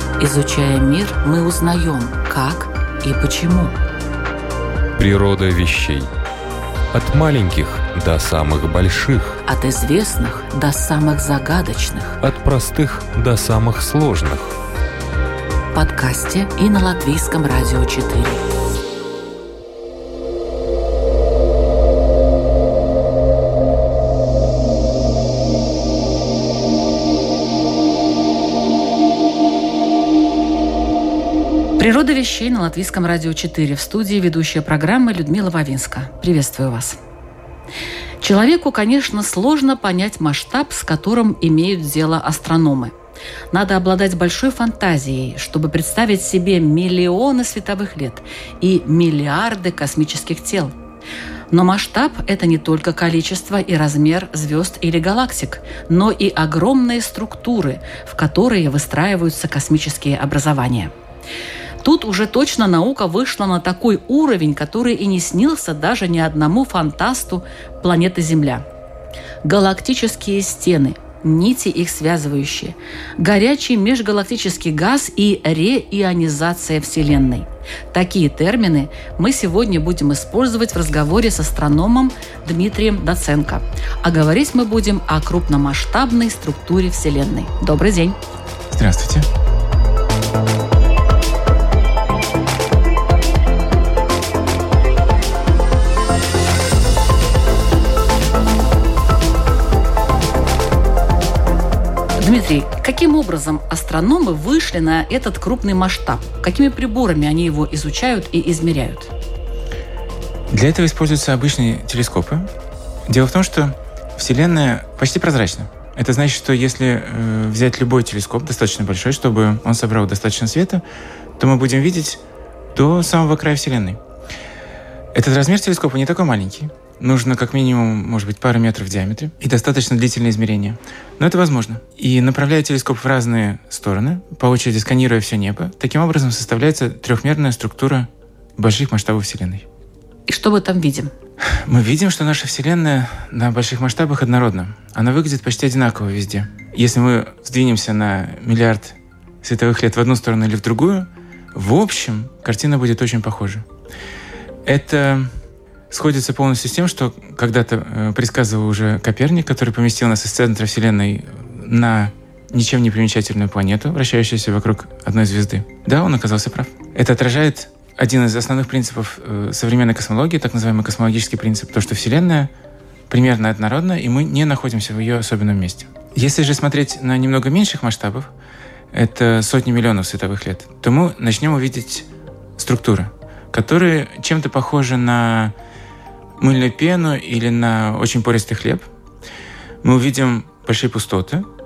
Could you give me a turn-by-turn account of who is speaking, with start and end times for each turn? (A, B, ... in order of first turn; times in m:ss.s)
0:00.2-0:03.8 A
0:05.0-0:06.1 B
0:06.9-0:09.4 B
0:09.4-0:12.2 A
0:12.2-0:14.6 B
0:15.7-0:18.4 A
0:31.8-0:37.0 A
0:38.2-0:42.9 A
0:43.5-0:50.7 A
0:51.5-1:00.9 A
1:01.8-1:08.6 A
1:09.4-1:28.2 A
1:28.7-1:29.3 C
1:42.2-1:49.1 A
1:50.5-1:52.5 C
1:53.1-2:00.8 C
2:01.4-2:02.2 C
2:02.7-2:04.0 C
2:05.1-2:19.6 C
2:20.3-2:21.1 A
2:21.5-2:33.6 C
2:34.6-2:35.3 C
2:35.9-2:52.5 C
2:53.1-2:58.3 C
2:58.9-3:05.5 C
3:06.4-3:08.9 C
3:09.8-3:11.4 C